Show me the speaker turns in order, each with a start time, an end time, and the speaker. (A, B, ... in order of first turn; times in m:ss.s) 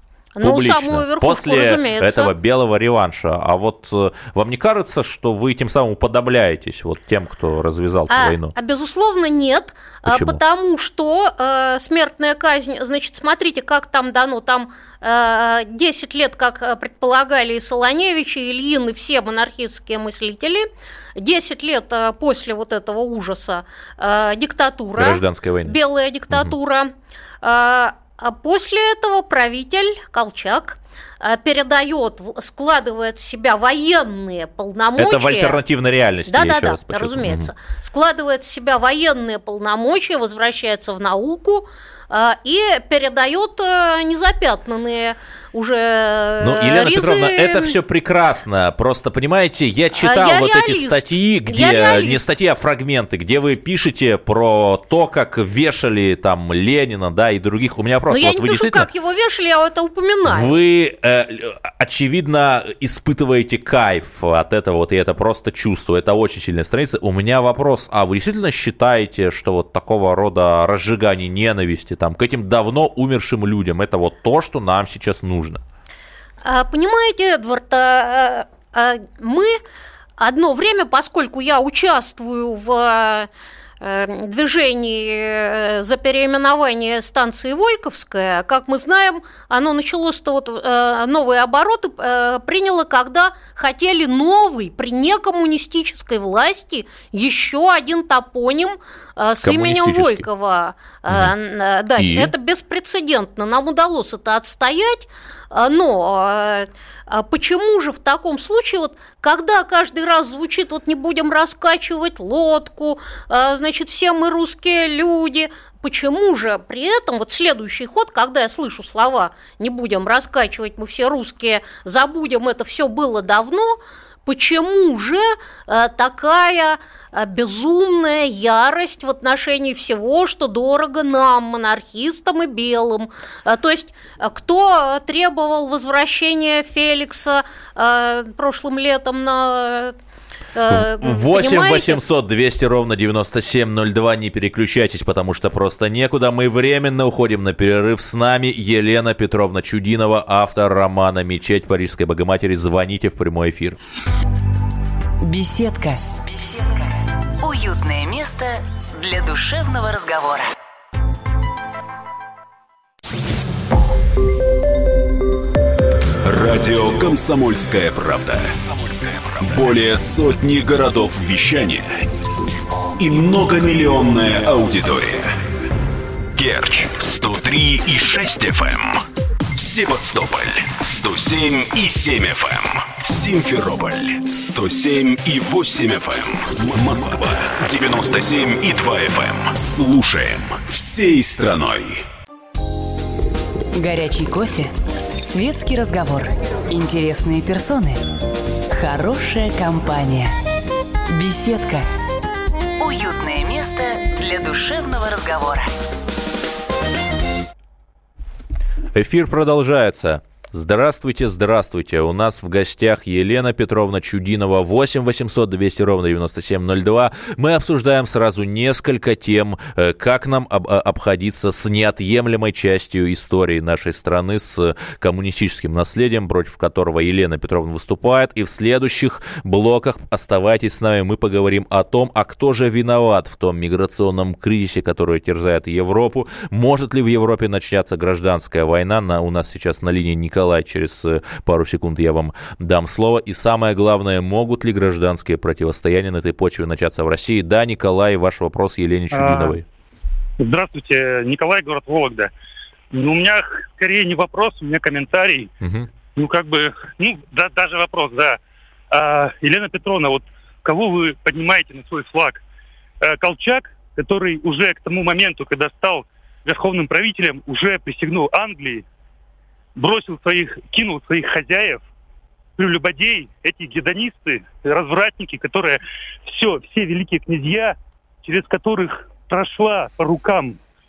0:00.4-0:02.3 A
0:00.4-0:08.5 B
0:08.1-0:35.6 A
0:10.1-0:10.4 B
0:25.0-0:25.8 B
0:35.0-0:37.5 B
0:36.3-0:47.8 A
0:46.4-0:58.9 B
0:50.0-0:52.2 A
0:58.1-1:00.5 A
1:00.2-1:15.6 B
1:16.4-1:19.6 A
1:20.2-1:23.3 A
1:23.8-2:20.0 A
1:39.4-1:40.3 B
1:41.1-1:41.3 B
1:42.0-1:42.3 B
2:20.5-2:22.0 A
2:20.7-2:33.8 B
2:35.2-2:40.5 C
2:46.2-2:52.0 D
2:53.0-2:55.4 D
2:56.4-3:12.0 D
3:13.7-3:18.0 C
3:18.7-3:20.3 C
3:21.1-3:21.9 C
3:22.8-3:25.7 C
3:28.9-4:09.6 B
4:09.1-4:09.6 E
4:10.4-4:12.3 E
4:12.9-4:15.5 E
4:15.6-4:15.9 B
4:16.1-4:18.4 E
4:18.9-4:22.4 E
4:23.0-4:28.8 E
4:29.8-4:31.8 E
4:32.6-4:40.6 E